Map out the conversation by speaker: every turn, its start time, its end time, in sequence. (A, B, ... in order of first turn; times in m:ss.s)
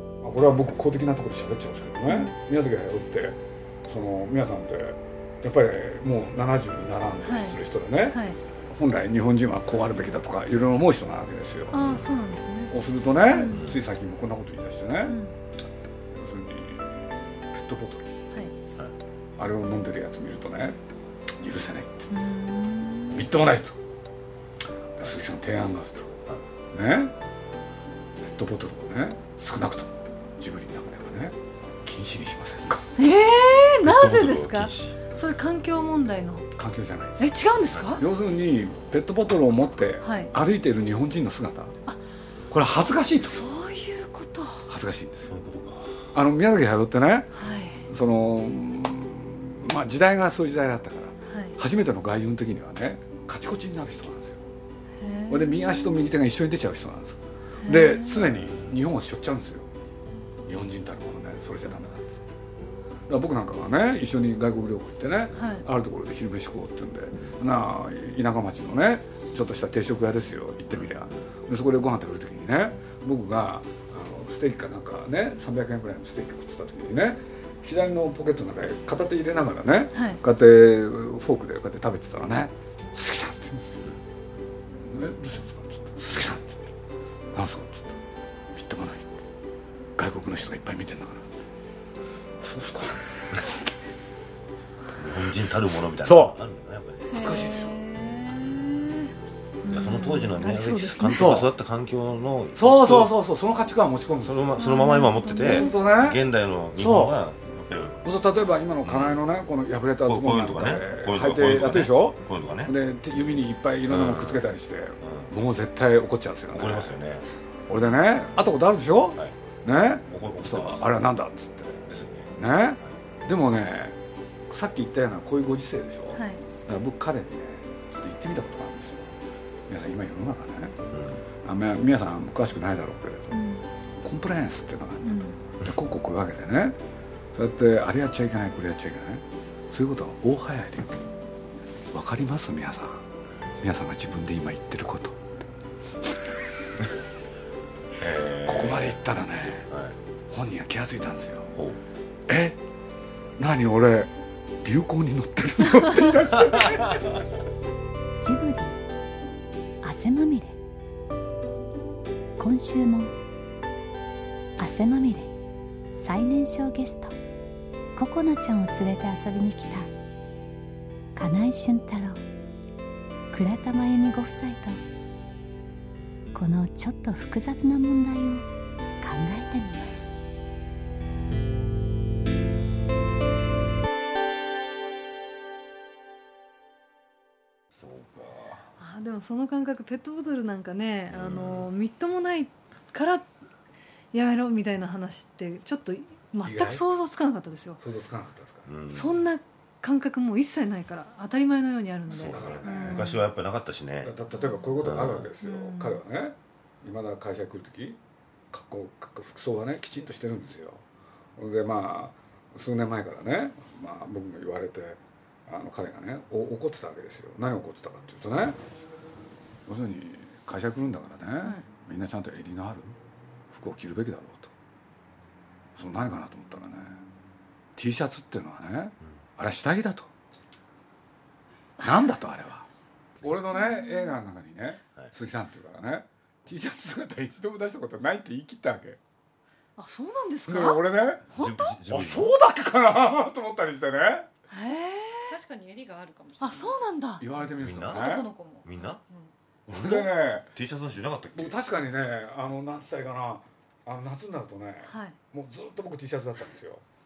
0:00.2-0:11.8 A
0:02.0-0:02.3 B
0:07.2-0:08.4 B
0:11.7-0:12.7 B
0:11.8-0:12.1 C
0:12.7-0:15.2 A
0:13.2-0:13.6 B
0:13.5-0:13.8 C
0:15.0-0:15.4 B
0:16.1-0:18.1 A
0:19.4-0:20.8 A
0:21.4-0:22.2 A
0:22.1-0:23.3 B
0:23.1-0:23.8 A
0:25.0-0:26.1 A
0:26.7-0:27.1 A
0:28.2-0:33.0 A
0:33.0-0:36.5 B
0:33.8-0:35.0 C
0:36.5-0:37.3 A
0:37.2-0:38.0 B
0:37.9-0:41.8 A
0:40.0-0:40.3 B
0:42.5-0:43.4 A
0:43.2-0:44.7 B
0:44.7-0:45.3 A
0:45.3-0:46.0 C
0:46.1-0:47.3 A
0:47.3-0:47.9 B
0:47.9-0:54.5 A
0:51.2-0:51.6 B
0:55.0-0:55.7 B
0:55.3-0:59.7 A
0:57.6-0:58.2 B
1:00.4-1:02.4 A
1:03.1-1:23.9 A
1:05.3-1:05.6 B
1:19.9-1:20.2 B
1:24.7-1:26.7 A
1:27.3-1:28.0 A
1:28.5-1:29.2 A
1:30.0-1:31.4 A
1:32.4-1:33.6 A
1:34.9-1:37.0 C
1:36.0-1:36.4 A
1:37.0-1:39.1 B
1:37.1-1:37.7 A
1:39.6-1:41.4 B
1:39.7-1:43.1 C
1:41.1-1:41.5 A
1:42.6-1:44.6 A
1:44.2-1:48.0 C
1:44.6-1:45.8 B
1:45.4-1:46.2 A
1:46.7-1:47.2 A
1:48.0-1:57.0 A
1:48.8-1:49.2 C
1:50.0-1:52.7 C
1:53.9-1:54.5 C
1:55.0-1:55.3 C
1:56.5-1:57.3 C
1:57.7-2:04.0 A
2:00.1-2:00.8 C
2:01.9-2:03.0 C
2:04.5-2:09.2 A
2:06.1-2:06.4 B
2:09.7-2:10.8 A
2:10.9-2:11.2 C
2:11.4-2:13.4 A
2:13.3-2:13.7 B
2:14.0-2:16.8 A
2:15.0-2:15.4 B
2:17.3-2:21.0 A
2:21.9-2:23.1 A
2:23.6-2:25.3 A
2:28.0-2:29.0 C
2:28.4-2:29.7 A
2:29.7-2:30.0 C
2:30.3-2:31.5 A
2:32.3-2:32.6 A
2:33.4-2:37.2 A
2:36.6-2:37.2 C
2:38.2-2:38.8 D
2:39.8-2:40.6 D
2:42.4-2:43.1 D
2:44.6-2:45.3 D
2:45.9-2:47.1 D
2:48.0-2:49.9 D
2:51.2-2:52.2 D
2:53.3-2:54.8 D
2:56.3-2:58.5 D
2:59.0-3:00.1 D
3:07.8-3:08.6 C
3:08.8-3:13.3 B
3:11.1-3:11.7 C
3:14.1-3:17.8 B
3:16.4-3:16.8 A
3:17.8-3:18.7 A
3:18.6-3:19.2 C
3:18.9-3:23.2 B
3:22.1-3:24.1 C
3:22.1-3:23.2 A
3:24.0-3:28.0 A
3:24.8-3:25.3 C
3:25.4-3:26.0 B
3:28.5-3:30.8 A
3:31.4-3:38.6 A
3:39.6-3:43.0 A
3:41.4-3:41.6 B
3:43.5-3:44.5 A
3:45.8-3:47.1 A
3:47.8-3:50.1 A
3:51.8-3:52.7 A
3:53.2-3:59.0 A
3:53.5-3:54.2 B
3:59.8-4:01.8 B
4:00.4-4:01.2 A
4:01.4-4:02.3 C
4:01.9-4:04.3 A
4:04.5-4:05.3 B
4:05.3-4:06.8 E
4:06.4-4:07.2 B
4:07.2-4:08.3 A
4:07.4-4:09.3 E
4:07.5-4:09.0 C
4:09.7-4:10.5 A
4:09.7-4:11.6 C
4:11.3-4:16.8 A
4:14.8-4:15.2 B